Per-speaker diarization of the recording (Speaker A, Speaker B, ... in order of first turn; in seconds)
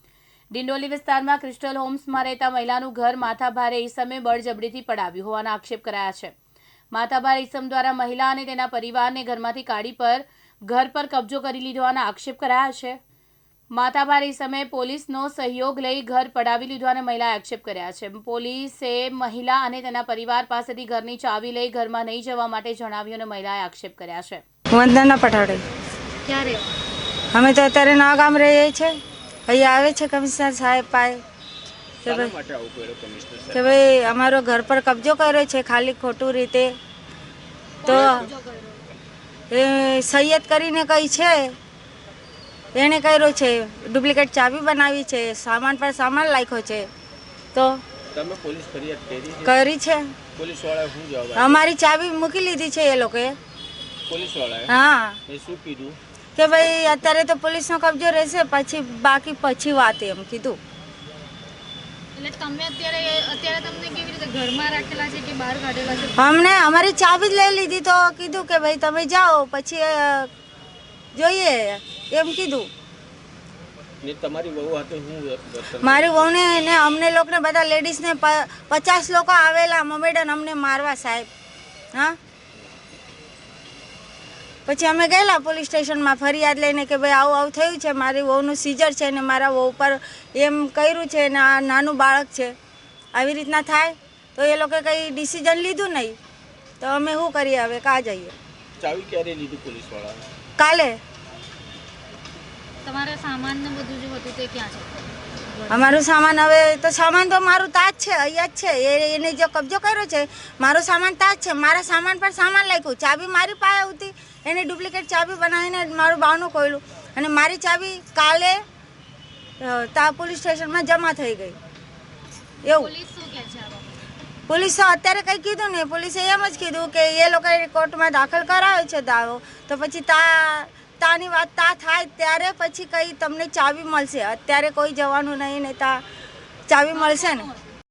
Speaker A: 0.5-6.3, 6.9-13.0, 13.7-24.4
Speaker B: 24.7-25.6, 27.3-29.0, 29.5-31.2, 32.0-32.3, 33.5-36.8, 37.9-38.3, 39.5-41.5, 42.7-46.9, 47.5-47.8, 49.4-50.2, 51.4-53.4, 54.7-55.2, 56.4-60.6, 66.1-70.3, 71.1-72.7, 75.8-81.3, 84.7-92.5, 93.1-96.2, 96.8-98.3, 100.6-101.0, 105.7-118.6, 119.6-121.6, 122.6-122.9, 124.5-136.0, 136.7-137.5
Speaker C: 26.2-26.7, 37.8-38.9, 62.2-66.2, 102.8-106.0, 122.6-124.0, 137.0-137.6
Speaker D: 32.0-33.8, 37.9-38.3, 48.1-49.5, 50.4-51.6, 54.1-54.7, 55.3-56.0, 74.0-76.3, 98.8-100.3